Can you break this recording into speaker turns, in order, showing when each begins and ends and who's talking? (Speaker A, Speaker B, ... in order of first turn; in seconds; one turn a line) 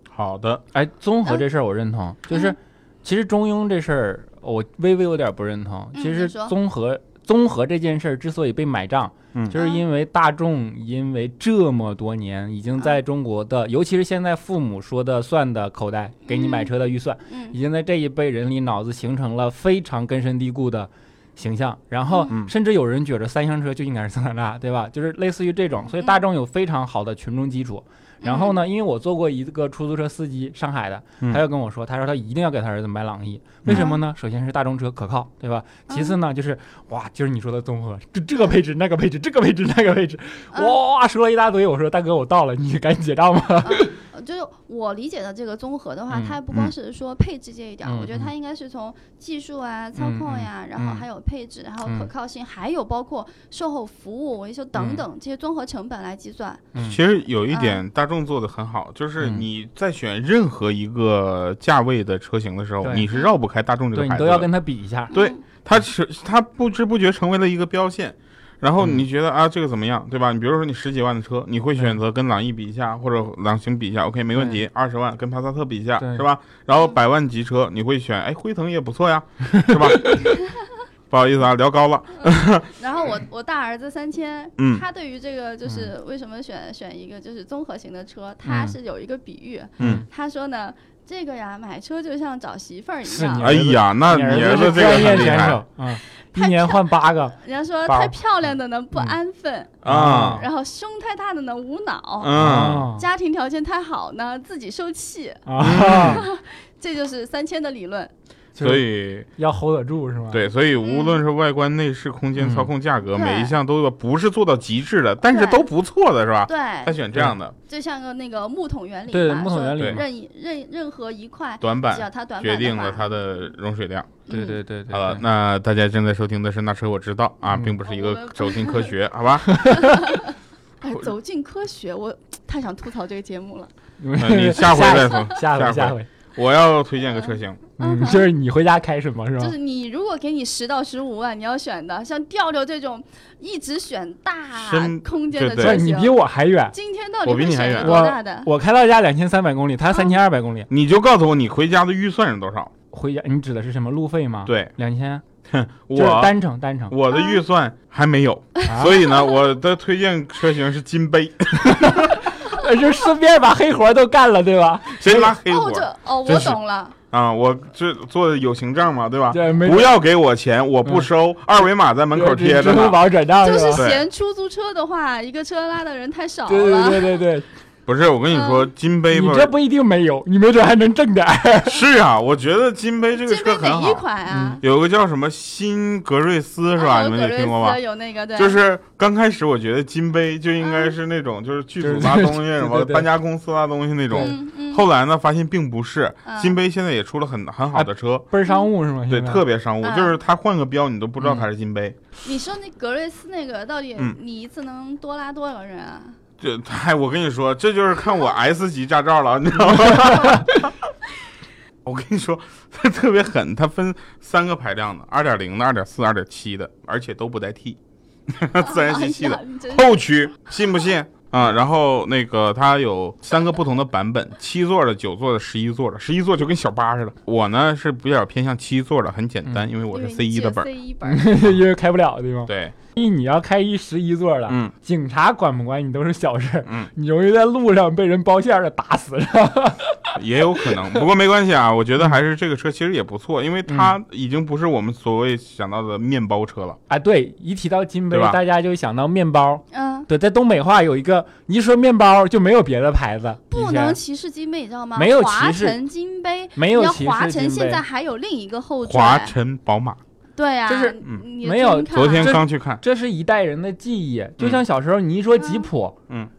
Speaker A: 0.1-0.6
Speaker B: 0.7-43.9
Speaker C: 2.3-2.6
Speaker C: 5.9-6.5
Speaker C: 9.6-9.8
Speaker C: 16.3-16.7
Speaker C: 17.3-17.6
Speaker C: 28.2-28.6
Speaker C: 33.7-34.0
Speaker C: 35.9-36.2
Speaker C: 43.6-56.7
Speaker B: 46.1-46.4
Speaker B: 47.9-48.3
Speaker B: 50.0-51.0
Speaker B: 54.8-55.0
Speaker A: 56.8-64.5
Speaker C: 57.5-57.8
Speaker B: 59.2-59.5
Speaker B: 62.8-63.1
Speaker B: 63.9-65.1
Speaker C: 65.1-65.4
Speaker A: 65.1-80.3
Speaker B: 74.3-74.6
Speaker B: 76.0-76.2
Speaker A: 81.1-82.7
Speaker C: 82.2-93.6
Speaker A: 84.6-84.8
Speaker B: 88.5-88.8
Speaker B: 89.8-90.1
Speaker B: 93.0-98.2
Speaker A: 93.4-95.6
Speaker C: 96.3-108.1
Speaker A: 99.8-100.4
Speaker B: 99.9-100.5
Speaker A: 102.2-102.9
Speaker B: 102.3-103.0
Speaker B: 105.5-106.2
Speaker A: 105.6-106.2
Speaker B: 108.6-110.4
Speaker A: 108.6-109.3
Speaker A: 110.3-117.5
Speaker C: 110.8-111.2
Speaker B: 112.4-112.7
Speaker C: 113.1-113.5
Speaker C: 115.2-115.7
Speaker C: 116.5-117.1
Speaker C: 117.7-123.1
Speaker B: 119.1-120.0
Speaker A: 121.6-124.2
Speaker C: 124.3-124.6
Speaker B: 124.3-125.2
Speaker A: 124.9-129.7
Speaker C: 127.9-128.9
Speaker B: 129.4-130.0
Speaker C: 129.7-133.7
Speaker B: 134.0-136.1
Speaker A: 134.2-137.6
Speaker C: 134.6-135.3
Speaker C: 137.2-138.3
Speaker B: 137.8-139.5
Speaker C: 139.4-148.5
Speaker A: 144.6-145.8
Speaker B: 145.6-146.7
Speaker A: 147.2-148.0
Speaker B: 147.8-150.7
Speaker A: 150.7-152.7
Speaker B: 152.9-155.2
Speaker A: 154.5-154.7
Speaker A: 155.5-156.3
Speaker B: 155.9-156.9
Speaker A: 156.9-162.2
Speaker C: 157.1-157.4
Speaker B: 158.7-158.9
Speaker C: 158.8-159.3
Speaker B: 161.7-165.3
Speaker A: 165.0-166.6
Speaker C: 165.5-167.0
Speaker A: 167.1-173.1
Speaker B: 169.3-169.9
Speaker B: 172.1-173.8
Speaker C: 173.4-177.2
Speaker A: 173.8-174.0
Speaker B: 176.5-177.5
Speaker A: 177.9-179.5
Speaker C: 178.3-178.7
Speaker B: 179.1-181.8
Speaker A: 181.7-184.1
Speaker C: 183.2-184.6
Speaker B: 184.3-184.6
Speaker A: 184.6-187.8
Speaker C: 186.8-188.6
Speaker A: 188.3-198.3
Speaker C: 190.6-191.0
Speaker B: 191.8-193.1
Speaker B: 194.1-194.3
Speaker C: 194.2-194.8
Speaker C: 196.2-196.6
Speaker B: 197.7-199.4
Speaker A: 199.1-202.0
Speaker C: 199.8-200.2
Speaker C: 202.2-206.2
Speaker A: 206.4-210.7
Speaker B: 210.1-210.4
Speaker A: 211.8-230.7
Speaker C: 218.6-220.1
Speaker C: 229.9-231.5
Speaker B: 231.1-240.2
Speaker A: 232.5-232.8
Speaker A: 234.5-234.7
Speaker A: 240.2-246.8
Speaker B: 243.7-244.0
Speaker B: 246.9-254.0
Speaker A: 248.1-248.4
Speaker C: 249.7-250.1
Speaker C: 253.5-259.4
Speaker B: 255.0-255.8
Speaker B: 256.6-257.8
Speaker A: 258.8-260.0
Speaker C: 260.4-262.4
Speaker B: 260.7-266.0
Speaker A: 261.9-262.8
Speaker C: 265.4-265.7